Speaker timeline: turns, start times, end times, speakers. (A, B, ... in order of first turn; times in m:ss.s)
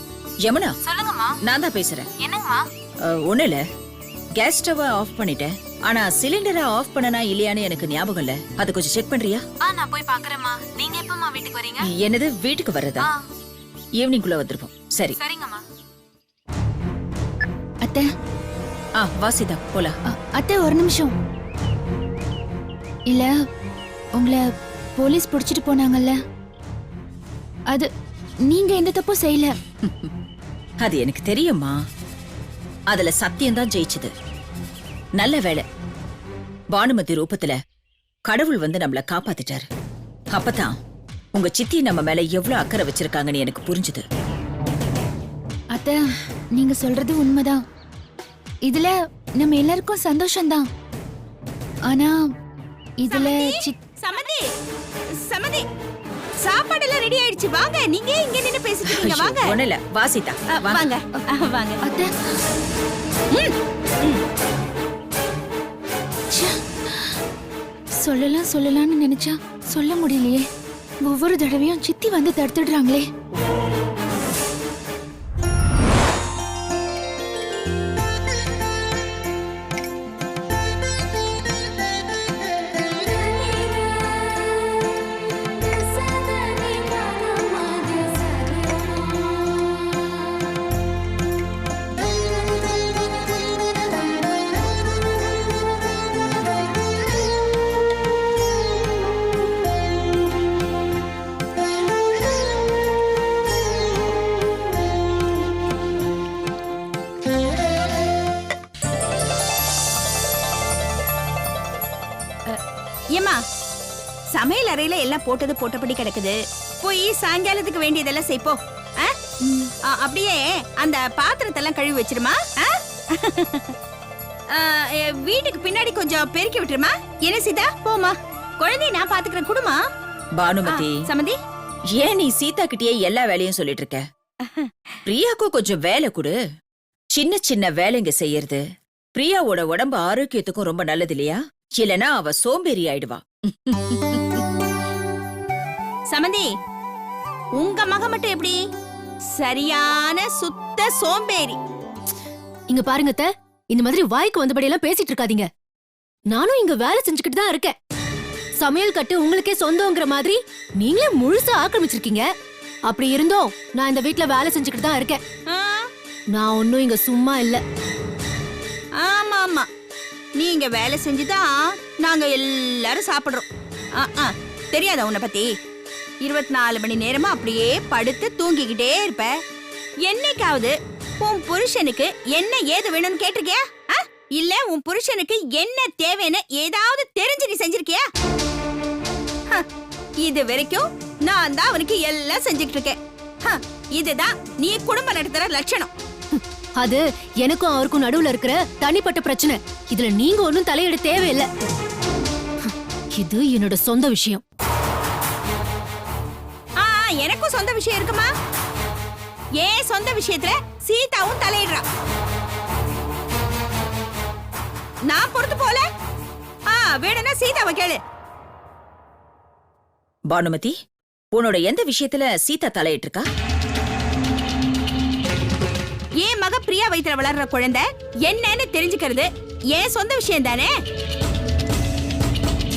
0:00.4-0:00.7 A
0:00.8-0:01.4 B
0:01.4-0:02.1 A
0:02.2-0:02.6 B
0:03.0-0:03.6 A
0:04.4-0:09.4 A
0:09.6-0:11.9 B
0:11.8-0:13.1 A
0:14.0-0:15.2 A
0:15.2-0:15.6 B
0:19.0-0:19.9 A
0:20.1-0:21.1 C
0:24.2-0:24.4 C
0:25.0-0:26.2 C
0:28.5-0:29.6 C
0:29.8-0:30.1 A
0:30.8-0:31.8 A
0:32.9-0:34.1 A
0:35.2-0:35.6 A
0:36.7-0:37.6 A
0:38.2-0:39.7 A
0:40.3-0:40.7 A
0:41.3-0:44.0 A
0:46.5-0:47.6 C
0:48.7-0:50.6 C
0:51.9-0:52.1 C
0:53.0-0:53.8 C
0:53.1-0:54.4 D
0:55.2-0:55.6 D
0:56.4-0:59.5 D
0:58.8-1:00.9 A
1:00.5-1:01.8 D
1:01.8-1:02.1 C
1:03.3-1:04.2 D
1:06.3-1:07.1 C
1:08.0-1:10.4 C
1:11.0-1:13.0 C
1:26.1-1:26.6 C
1:27.1-1:28.5 C
1:53.1-1:53.4 D
1:54.3-1:59.1 D
1:59.4-1:59.7 C
1:59.8-2:03.7 D
2:04.5-2:09.8 D
2:10.4-2:11.0 A
2:10.7-2:11.4 D
2:11.9-2:14.0 A
2:14.4-2:14.7 D
2:15.0-2:16.3 A
2:17.1-2:18.6 A
2:19.1-2:24.4 A
2:26.1-2:26.5 D
2:27.6-2:28.6 D
2:29.4-2:31.6 D
2:32.7-2:35.5 E
2:36.3-2:37.8 E
2:38.6-2:42.2 E
2:42.9-2:45.2 E
2:45.5-2:45.9 D
2:46.3-2:47.6 E
2:49.0-2:49.7 D
2:50.4-2:53.5 D
2:54.0-2:55.5 D
2:56.2-2:59.3 D
3:00.0-3:08.0 D
3:10.2-3:15.9 D
3:16.3-3:21.5 E
3:22.6-3:24.4 E
3:26.8-3:28.3 D
3:29.6-3:31.8 D
3:35.1-3:35.8 D
3:36.7-3:38.0 D
3:40.3-3:40.7 A
3:41.3-3:43.2 A
3:46.2-3:50.7 D